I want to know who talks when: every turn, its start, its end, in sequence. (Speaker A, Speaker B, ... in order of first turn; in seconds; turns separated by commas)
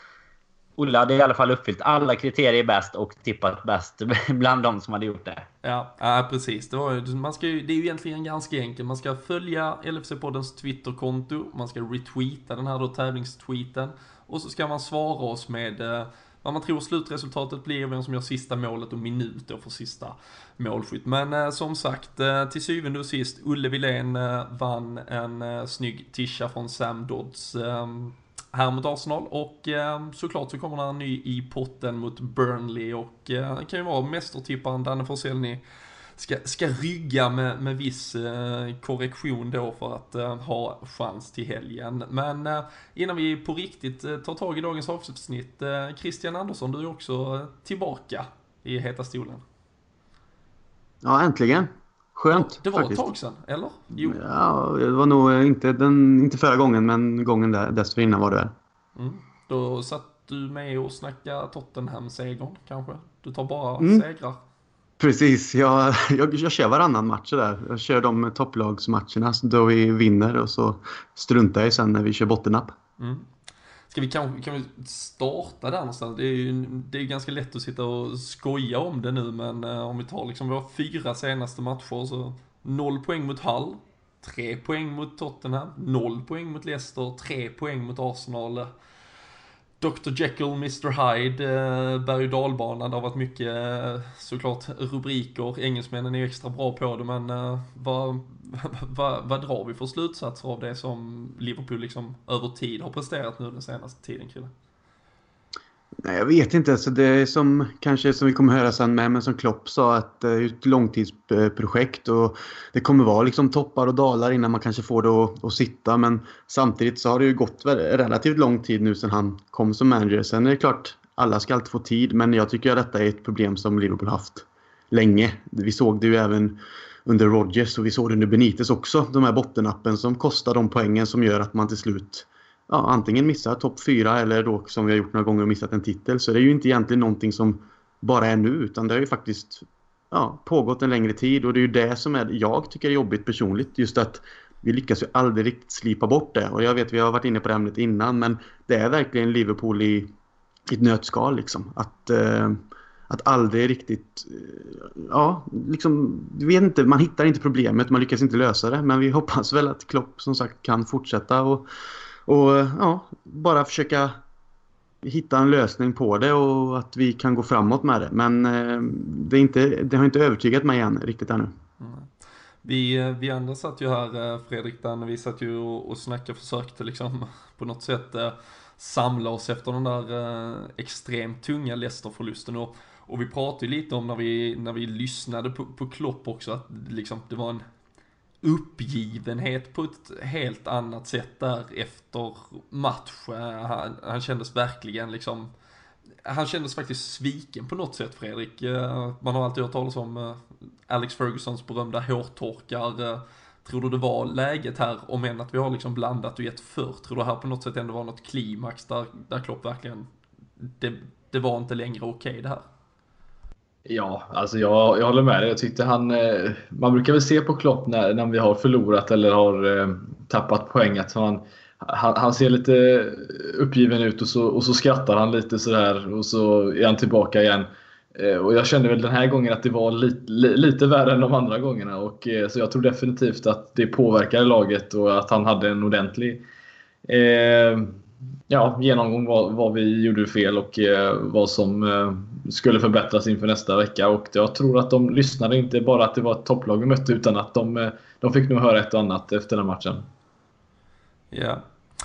Speaker A: 0.8-5.5, Speaker B: 5.6-35.6, Speaker B: 36.2-49.4, Speaker C: 51.0-53.0, Speaker B: 52.3-54.2, Speaker C: 54.0-58.5, Speaker B: 59.0-64.4, Speaker C: 63.8-64.0, Speaker C: 65.0-72.8, Speaker B: 73.0-73.3, Speaker B: 73.9-88.7, Speaker B: 89.8-104.5, Speaker C: 106.0-150.1, Speaker C: 150.7-161.7, Speaker C: 162.3-164.2, Speaker C: 165.0-171.5, Speaker B: 171.8-172.1, Speaker B: 172.6-187.6, Speaker B: 188.4-195.5, Speaker B: 196.2-210.1, Speaker B: 210.6-212.6, Speaker D: 213.9-236.4, Speaker D: 237.1-238.0, Speaker D: 238.5-250.1, Speaker B: 251.3-251.6